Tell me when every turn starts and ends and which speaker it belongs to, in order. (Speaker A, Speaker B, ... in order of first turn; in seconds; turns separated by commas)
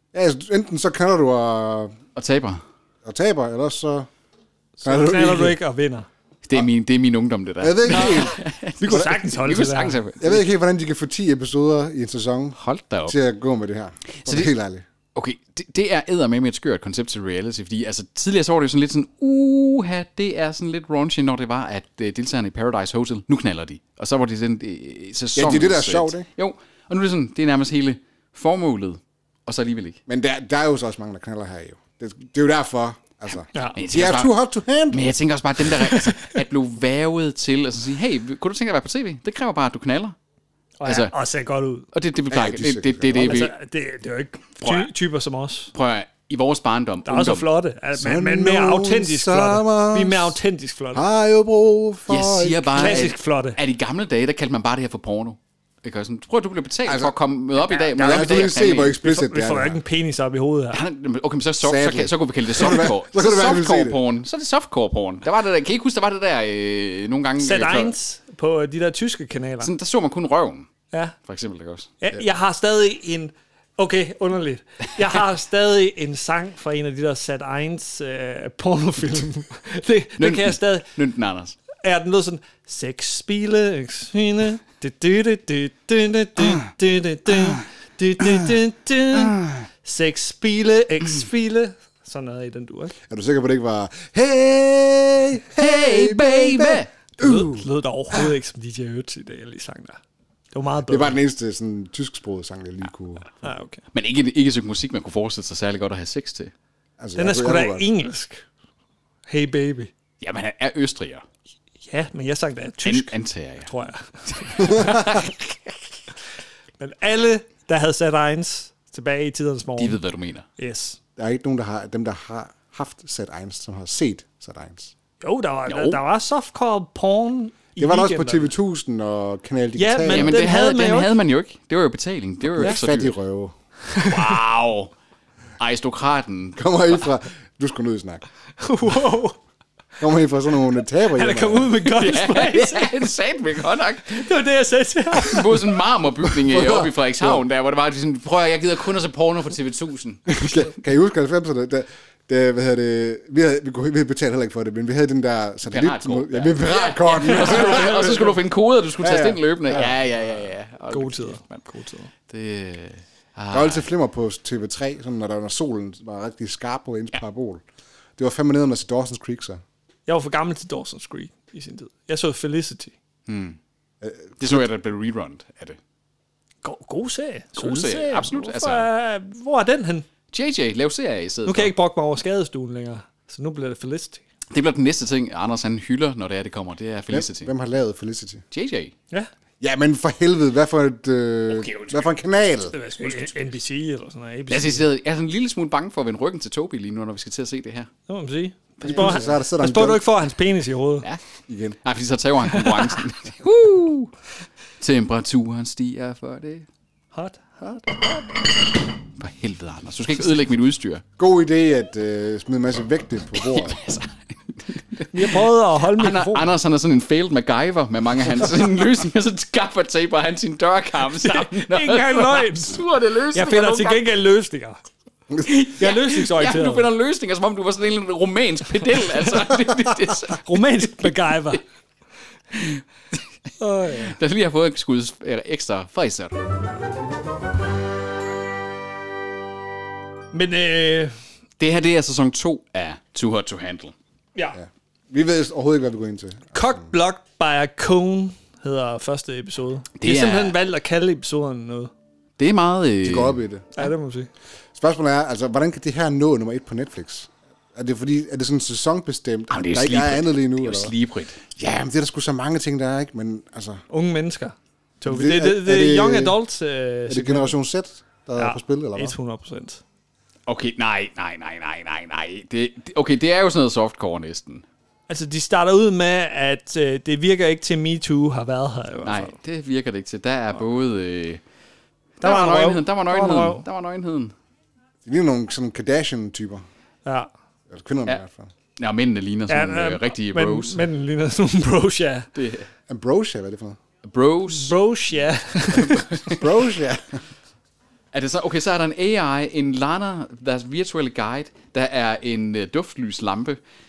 Speaker A: 0.1-1.9, Speaker B: 2.2-2.6, Speaker A: 3.0-4.1, Speaker C: 4.8-6.1, Speaker A: 4.8-5.6, Speaker B: 6.4-10.4, Speaker A: 7.6-9.2, Speaker C: 7.9-10.0, Speaker A: 10.2-14.8, Speaker B: 12.6-13.2, Speaker B: 14.2-14.5, Speaker B: 15.2-30.0, Speaker A: 25.4-26.3, Speaker A: 30.1-35.1, Speaker B: 33.8-34.3, Speaker B: 34.9-40.1, Speaker C: 40.8-41.9, Speaker B: 40.9-41.1, Speaker B: 41.9-43.5, Speaker A: 42.3-43.4, Speaker C: 43.1-45.7, Speaker B: 44.6-44.9, Speaker B: 45.7-47.5, Speaker C: 47.0-51.0, Speaker A: 48.0-50.4, Speaker A: 50.9-53.1, Speaker B: 52.1-59.0, Speaker C: 52.8-53.6, Speaker A: 56.9-57.1, Speaker A: 57.8-59.8, Speaker C: 59.0-60.8, Speaker B: 60.7-67.9, Speaker A: 61.6-64.0, Speaker C: 67.4-69.7, Speaker B: 69.6-70.7, Speaker B: 71.3-71.9, Speaker C: 72.0-80.9, Speaker B: 80.2-81.6, Speaker C: 81.8-93.0, Speaker A: 93.1-97.7, Speaker B: 95.6-96.9, Speaker C: 97.2-100.0, Speaker C: 100.5-101.2, Speaker A: 100.9-103.4, Speaker C: 103.4-103.8, Speaker B: 103.9-106.5, Speaker A: 107.0-107.9, Speaker C: 107.2-108.4, Speaker C: 109.3-109.9, Speaker B: 110.2-111.2, Speaker C: 111.9-113.1, Speaker B: 112.8-113.7, Speaker C: 113.7-115.3, Speaker B: 114.5-115.3, Speaker C: 116.8-120.0, Speaker B: 119.8-120.5, Speaker C: 120.6-121.0, Speaker A: 121.2-124.9, Speaker C: 125.2-128.5, Speaker B: 125.7-126.0, Speaker A: 127.8-130.4, Speaker C: 129.8-131.1, Speaker B: 130.1-133.2, Speaker A: 132.5-133.6, Speaker C: 133.9-134.4, Speaker B: 134.0-134.9, Speaker B: 135.6-137.1, Speaker A: 136.6-138.2, Speaker C: 138.6-139.4, Speaker A: 140.0-141.8, Speaker C: 141.1-143.0, Speaker B: 141.8-144.3, Speaker C: 144.2-145.8, Speaker B: 145.1-150.7, Speaker A: 146.3-147.4, Speaker A: 150.3-158.4, Speaker B: 155.7-161.6, Speaker A: 159.0-159.9, Speaker C: 160.9-162.1, Speaker B: 162.3-163.8, Speaker A: 163.5-167.6, Speaker A: 168.2-169.6, Speaker C: 170.1-172.9, Speaker B: 173.3-173.6, Speaker A: 174.0-174.6, Speaker B: 174.4-175.8, Speaker C: 176.6-180.1, Speaker B: 177.6-178.9, Speaker B: 180.3-181.7, Speaker C: 181.5-184.2, Speaker B: 184.5-187.5, Speaker A: 187.1-188.4, Speaker B: 188.5-188.9, Speaker A: 189.6-192.8, Speaker B: 191.5-192.1, Speaker C: 192.7-194.8, Speaker B: 193.0-193.4, Speaker B: 194.5-197.9, Speaker C: 198.1-201.1, Speaker B: 198.8-199.2, Speaker A: 198.8-200.0, Speaker A: 201.5-201.8, Speaker B: 201.8-204.1, Speaker B: 204.8-206.7, Speaker C: 207.1-208.1, Speaker B: 209.1-211.0, Speaker A: 211.2-213.8, Speaker B: 213.4-224.0, Speaker C: 215.1-216.5, Speaker C: 221.1-224.8, Speaker B: 225.4-231.1, Speaker C: 225.7-226.9, Speaker C: 230.3-231.6, Speaker B: 232.5-233.2, Speaker C: 233.6-234.2, Speaker B: 233.9-236.4, Speaker C: 240.3-241.2, Speaker B: 241.6-243.9, Speaker A: 244.6-246.8, Speaker C: 246.5-251.9, Speaker B: 250.0-250.6, Speaker B: 252.4-253.4, Speaker A: 253.0-253.7, Speaker C: 253.8-254.3, Speaker A: 254.8-260.9, Speaker B: 259.5-261.6, Speaker A: 261.6-263.8, Speaker C: 263.9-267.6, Speaker A: 265.1-266.4, Speaker A: 267.1-269.2, Speaker C: 268.4-269.8, Speaker B: 270.5-274.6, Speaker C: 275.1-279.4, Speaker B: 279.1-281.4, Speaker B: 282.2-284.3, Speaker C: 282.2-283.6, Speaker A: 285.1-286.6, Speaker A: 287.7-288.5, Speaker B: 288.8-290.8, Speaker C: 289.5-292.3, Speaker B: 292.4-292.7, Speaker A: 292.9-293.8, Speaker B: 294.0-294.8, Speaker C: 294.5-296.4, Speaker B: 295.7-296.3, Speaker A: 296.2-297.2, Speaker B: 298.1-303.6